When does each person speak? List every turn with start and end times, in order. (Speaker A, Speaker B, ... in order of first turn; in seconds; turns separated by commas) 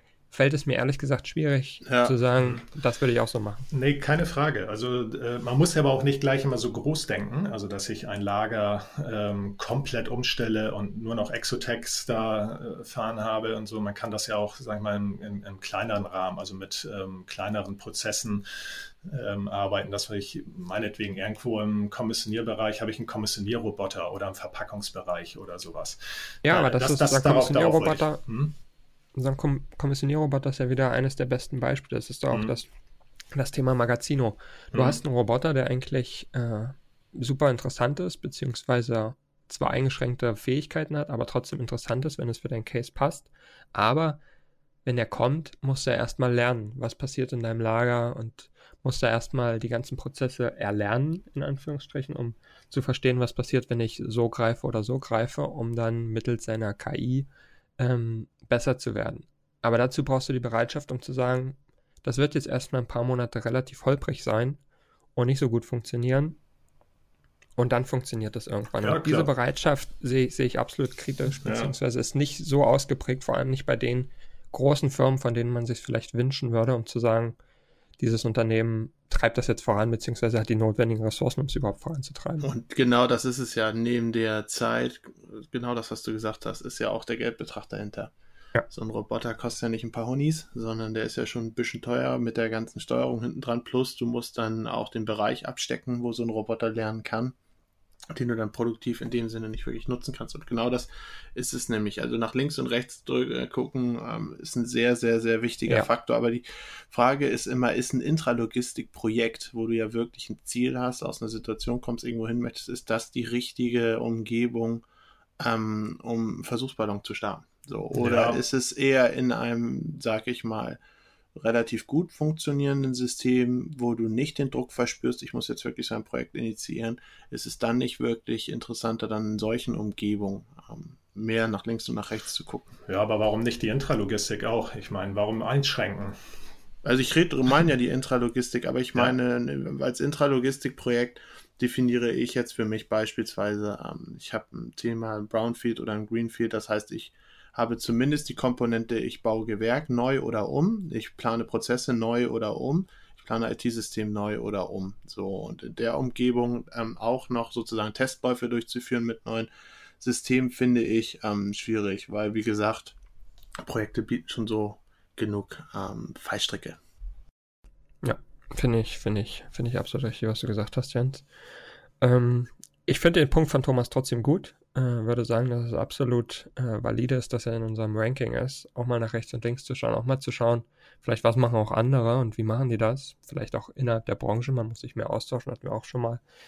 Speaker A: 0.3-3.7, Speaker B: 1.9-2.2, Speaker C: 2.4-2.6, Speaker C: 3.7-28.5, Speaker A: 26.4-28.2, Speaker A: 29.2-32.7, Speaker A: 33.3-44.2, Speaker C: 34.7-35.0, Speaker A: 44.9-57.3, Speaker A: 57.8-64.6, Speaker A: 65.2-66.4, Speaker A: 67.6-77.4, Speaker C: 68.8-69.3, Speaker C: 71.4-71.7, Speaker A: 78.0-82.5, Speaker B: 82.4-88.1, Speaker B: 88.7-97.3, Speaker B: 98.1-114.8, Speaker B: 115.4-120.8, Speaker C: 117.9-118.4, Speaker B: 121.4-132.7, Speaker C: 132.9-136.2, Speaker B: 136.8-159.5, Speaker B: 160.0-162.9, Speaker B: 163.6-166.8, Speaker A: 168.0-171.3, Speaker A: 172.0-186.2